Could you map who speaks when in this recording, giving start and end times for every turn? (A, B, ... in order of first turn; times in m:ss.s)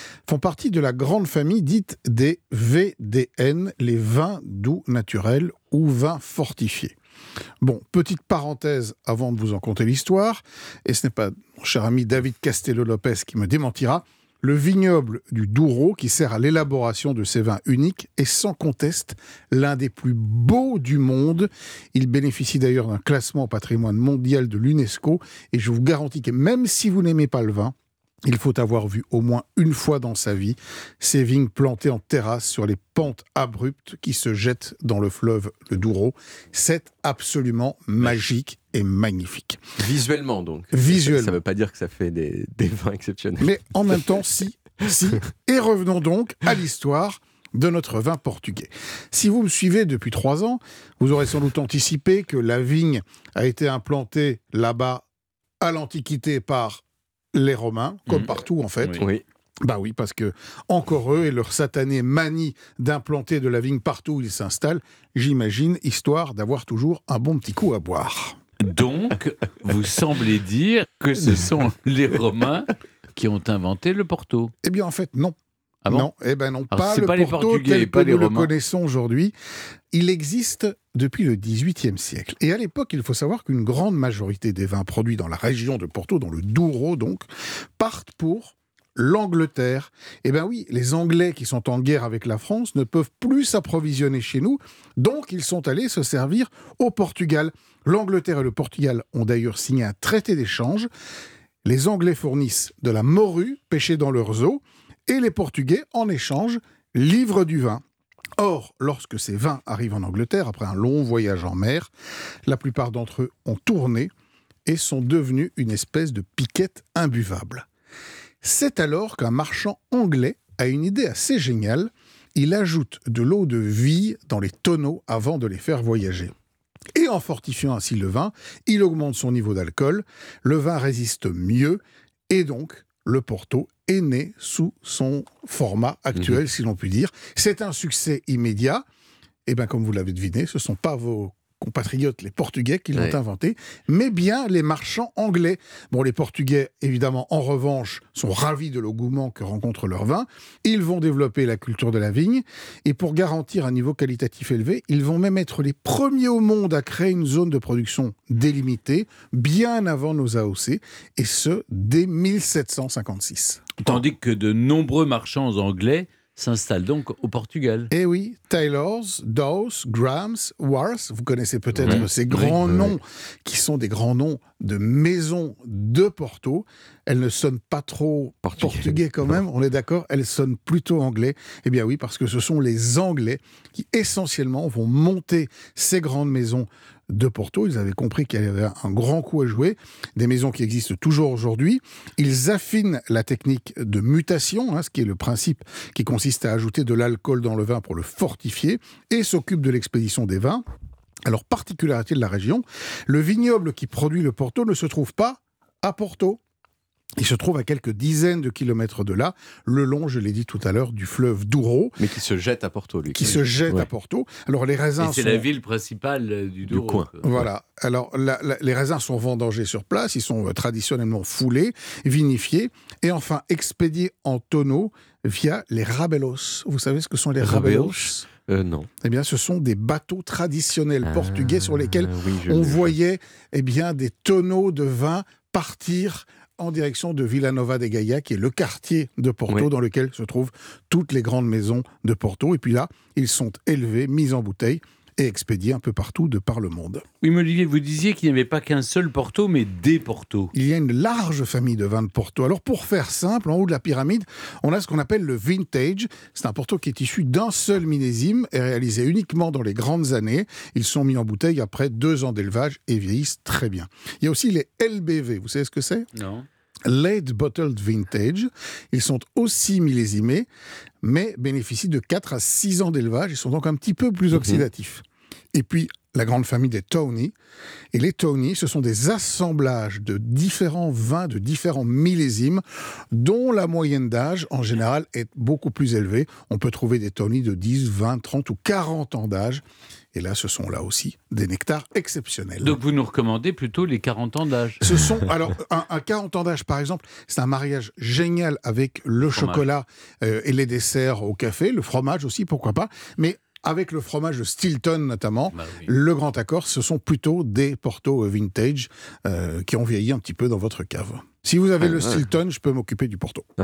0:00.3-0:06.9 A
0:07.6-0:27.7 A
0:28.2-0:39.6 A
0:39.8-0:44.0 B
0:40.7-0:41.4 A
0:43.4-0:55.0 A
0:55.6-0:56.8 A
0:57.3-0:59.1 A
0:58.1-0:59.0 C
0:59.6-1:08.4 A
1:08.6-1:14.5 C
1:14.6-1:15.4 A
1:15.9-1:19.3 A
1:16.7-1:18.5 C
1:19.9-1:27.2 A
1:27.8-1:40.9 A
1:41.6-1:47.8 A
1:48.4-1:51.9 A
1:52.5-1:54.1 A
1:54.6-1:57.6 A
1:58.4-2:06.3 A
2:06.9-2:18.8 A
2:16.2-2:16.4 B
2:19.4-2:44.0 A
2:43.8-2:47.9 C
2:47.9-3:20.6 A
2:51.7-2:52.9 B
2:51.8-2:52.5 C
2:58.5-2:59.0 B
3:21.2-3:26.4 A
3:27.2-3:32.0 A
3:32.0-3:33.9 B
3:33.1-3:35.5 A
3:35.0-3:37.2 C
3:36.7-3:37.5 B
3:37.2-3:48.3 A
3:47.4-3:48.9 B
3:49.0-4:07.0 A
3:51.0-3:52.9 B
4:07.2-4:10.5 C
4:10.5-4:26.1 A
4:26.1-4:26.4 C
4:26.8-4:30.5 A
4:31.0-4:37.3 A
4:34.3-4:34.6 B
4:37.9-4:49.6 A
4:50.1-4:52.8 A
4:52.6-4:54.9 C
4:54.8-5:13.4 A
4:59.2-4:59.7 C
5:05.5-5:05.9 C
5:11.8-5:12.3 B